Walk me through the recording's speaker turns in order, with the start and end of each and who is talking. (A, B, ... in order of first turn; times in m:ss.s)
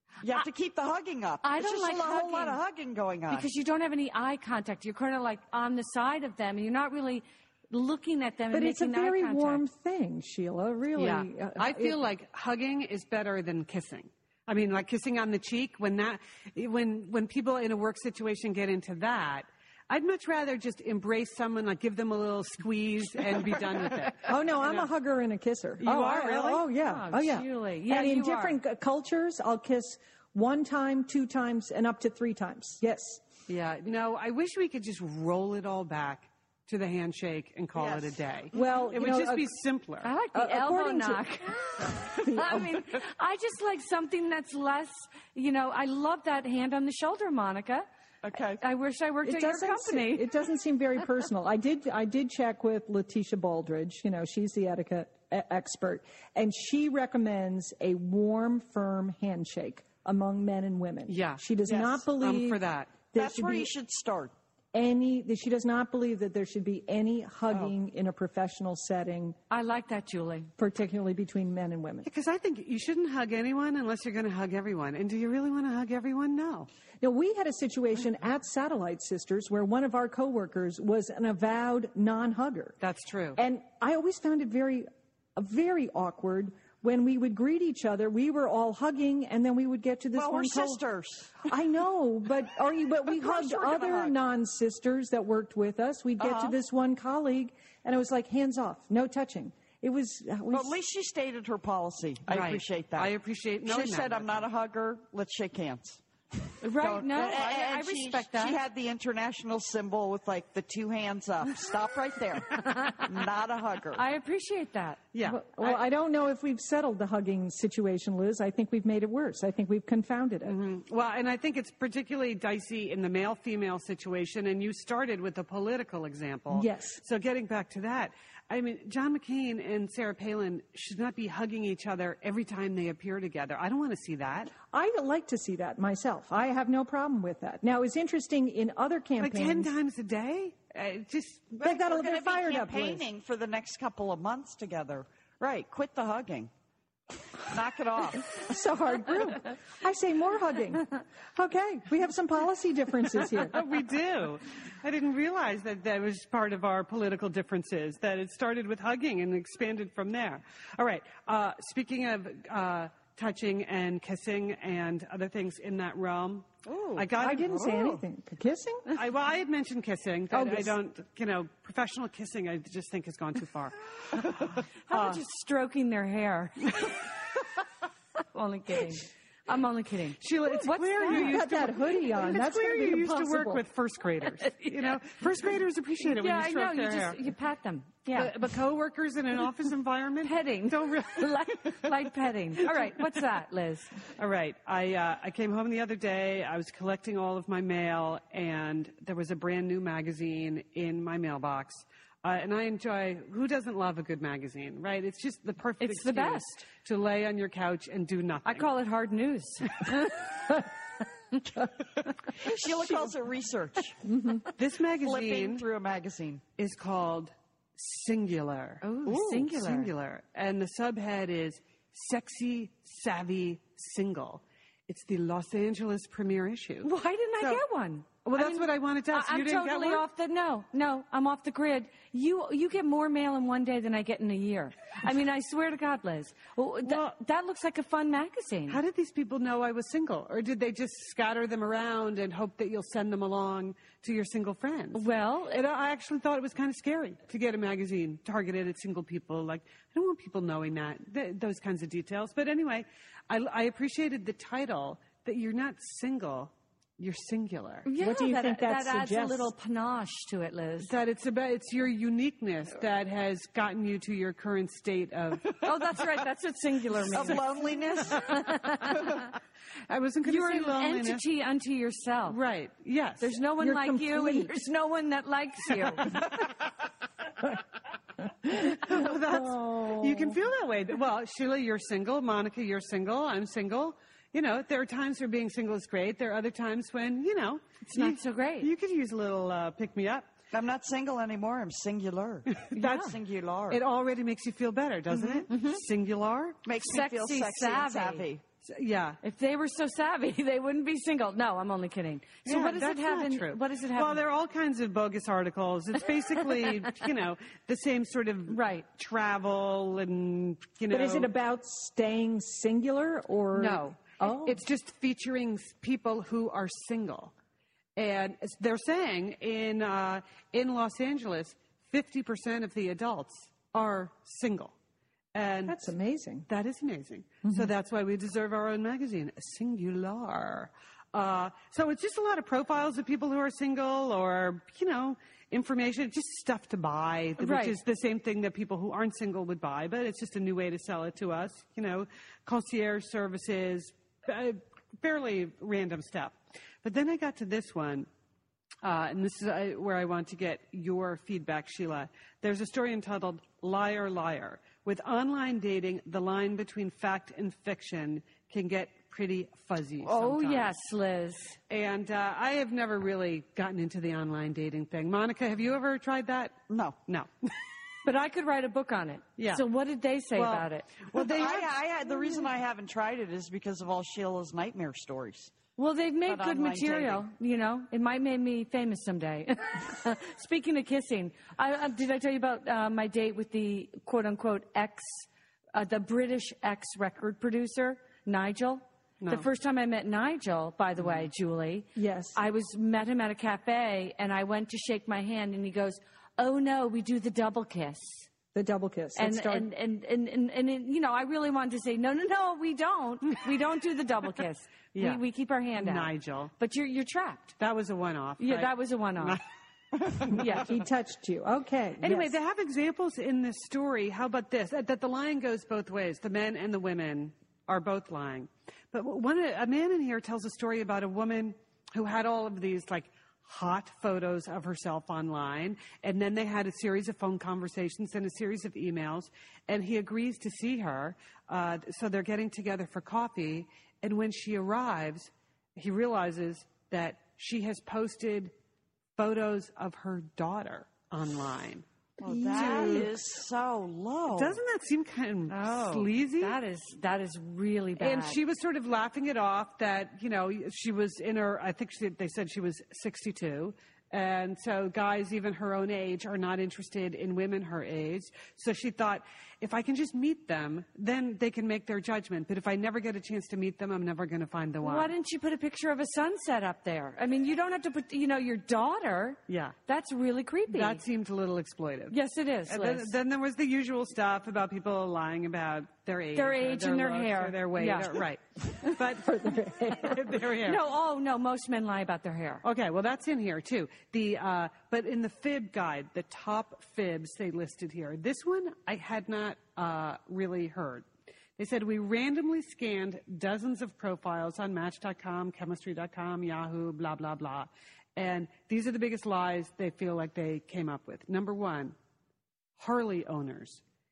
0:00.2-0:03.5 A
0:01.4-0:02.6 B
0:03.3-0:09.6 B
0:08.5-0:12.0 C
0:11.0-0:24.9 D
0:24.2-0:33.2 C
0:25.8-0:26.7 D
0:26.8-0:28.6 B
0:33.5-0:40.1 D
0:37.8-0:38.2 A
0:38.5-0:39.5 C
0:40.0-0:47.8 B
0:40.3-0:42.8 C
0:48.2-0:48.6 A
0:48.6-0:50.3 B
0:49.2-1:03.7 C
1:01.1-1:02.9 D
1:03.1-1:04.3 A
1:04.7-1:09.4 C
1:09.5-1:10.5 B
1:10.6-1:12.1 C
1:12.0-1:16.7 D
1:17.0-1:22.8 C
1:22.8-1:23.4 D
1:23.4-1:30.8 C
1:30.1-1:31.4 A
1:31.4-1:40.8 C
1:33.1-1:34.1 A
1:36.2-1:36.6 A
1:40.5-1:43.1 A
1:42.3-1:44.4 D
1:43.6-1:46.0 A
1:46.6-1:48.6 B
1:46.7-1:54.0 A
1:52.7-1:53.0 B
1:53.9-1:55.0 B
1:55.1-1:55.8 D
1:55.2-2:00.6 C
2:00.4-2:14.5 D
2:06.5-2:07.0 C
2:14.7-2:19.7 C
2:19.2-2:21.6 D
2:21.6-2:26.5 A
2:21.6-2:23.0 C
2:27.4-2:28.4 A
2:28.3-2:33.6 C
2:33.4-2:48.0 D
2:46.7-2:47.0 A
2:47.2-2:49.0 C
2:48.9-2:55.2 D
2:50.3-2:50.7 C
2:54.9-2:57.0 B
2:58.3-3:01.4 B
3:00.2-3:07.2 D
3:01.0-3:03.6 C
3:04.4-3:04.9 B
3:06.0-3:08.4 B
3:08.1-3:11.9 D
3:10.2-3:13.9 B
3:12.7-3:13.0 D
3:14.2-3:28.7 D
3:25.8-3:26.6 B
3:28.4-3:30.2 B
3:32.3-3:34.0 A
3:34.1-3:34.4 C
3:34.6-3:35.6 D
3:35.0-3:36.4 A
3:36.6-3:47.6 D
3:38.8-3:39.9 B
3:46.8-3:58.8 B
3:48.2-3:50.0 D
3:56.8-3:57.1 D
3:58.7-4:17.9 D
4:04.9-4:05.6 B
4:17.8-4:20.9 B
4:18.0-4:19.5 C
4:20.8-4:25.6 D
4:25.6-4:29.3 B
4:27.0-4:28.4 A
4:29.9-4:31.2 D
4:30.2-4:32.4 B
4:32.3-4:33.3 D
4:33.2-4:36.3 B
4:33.6-4:34.5 C
4:38.5-4:40.4 C
4:38.6-4:50.2 D
4:47.9-4:48.7 B
4:50.5-4:53.8 A
4:52.5-4:53.0 D
4:52.7-4:53.1 B
4:53.7-4:56.6 D
4:55.1-4:55.5 A
4:55.5-4:55.8 B
4:56.6-4:58.4 A
4:56.8-4:58.3 B
4:58.6-4:59.2 D
4:59.2-5:04.2 B
5:02.4-5:11.3 D
5:08.5-5:08.8 B
5:10.9-5:14.5 C
5:13.6-5:14.4 B
5:14.4-5:17.3 D
5:18.0-5:24.7 D
5:25.3-5:25.9 D
5:25.7-5:26.5 C
5:26.5-5:48.1 D
5:37.4-5:37.8 B
5:48.8-6:00.7 D
6:00.0-6:01.6 B
6:01.7-6:07.5 D
6:06.7-6:07.0 A
6:08.0-6:10.9 B
6:09.4-6:09.6 D
6:10.3-6:11.7 D
6:11.1-6:15.5 A
6:15.8-6:38.3 B
6:16.2-6:17.2 A
6:32.0-6:32.4 C
6:38.5-6:39.7 C
6:39.2-6:47.5 B
6:44.9-6:45.2 D
6:45.8-6:46.5 D
6:47.6-6:49.4 D
6:48.4-6:49.4 B
6:50.3-6:52.4 C
6:50.3-6:50.7 B
6:52.0-7:18.5 D
7:19.2-7:23.1 D
7:22.2-7:24.6 A
7:22.3-7:23.1 C
7:24.3-7:26.6 D
7:25.5-7:28.4 B
7:28.0-7:45.1 D
7:44.8-7:51.0 B
7:49.5-7:49.7 D
7:50.7-7:52.2 D
7:52.1-7:53.1 B
7:52.7-7:59.4 D
7:56.3-7:58.2 B
7:59.1-8:00.4 C
7:59.9-8:00.8 D
8:00.6-8:02.6 B
8:02.6-8:21.9 D
8:22.8-8:23.8 D